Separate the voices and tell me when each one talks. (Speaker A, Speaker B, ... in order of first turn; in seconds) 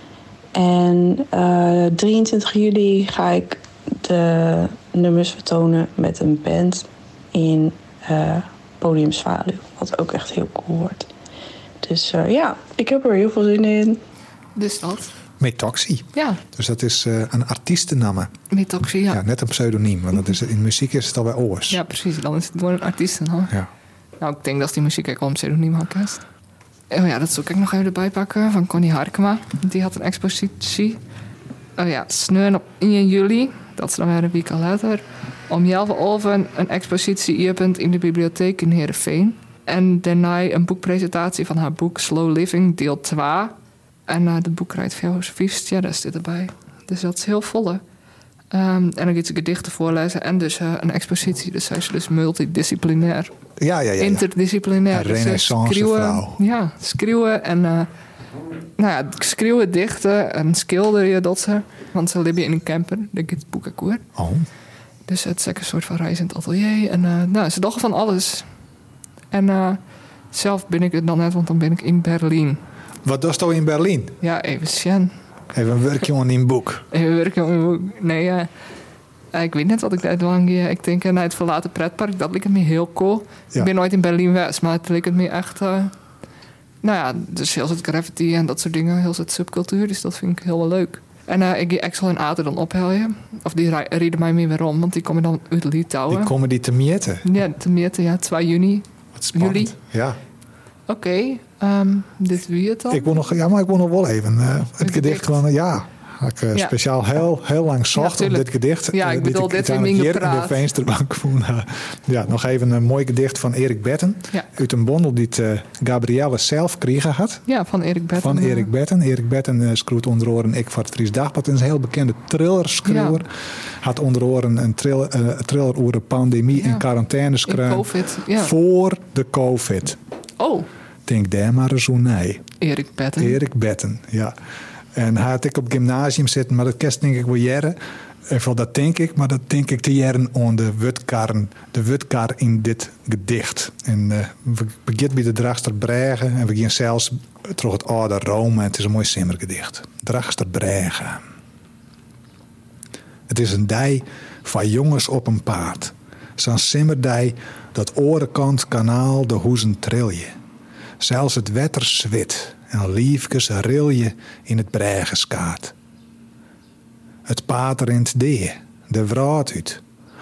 Speaker A: 0.6-11.1, 11.8-14.0
Speaker B: 14.6-15.1, 16.1-16.4, 18.5-19.2, 21.7-23.5, 24.2-26.2, 26.9-31.0, 31.8-43.5, 44.1-47.8, 48.5-53.3, 54.0-57.9, 58.8-64.0, 65.1-68.5, 69.3-69.8, 70.3-72.6, 74.2-75.1, 76.9-78.5, 79.3-85.9, 86.8-96.3, 97.2-99.8, 100.9-103.2, 104.8-105.4, 108.0-110.6, 117.5-118.7, 122.8-123.2, 126.5-126.8, 127.5-128.5, 130.4-130.7, 132.6-133.4
Speaker C: 15.4-18.3, 19.1-21.8, 53.6-54.3, 54.9-56.4, 64.2-64.5, 73.0-74.2, 75.5-76.8, 96.1-97.3, 99.2-100.2, 102.9-117.5, 118.2-123.3, 123.8-130.0, 131.1-132.4, 133.2-134.3, 134.9-137.8, 138.3-151.2, 153.3-160.3, 161.0-165.7, 167.3-169.8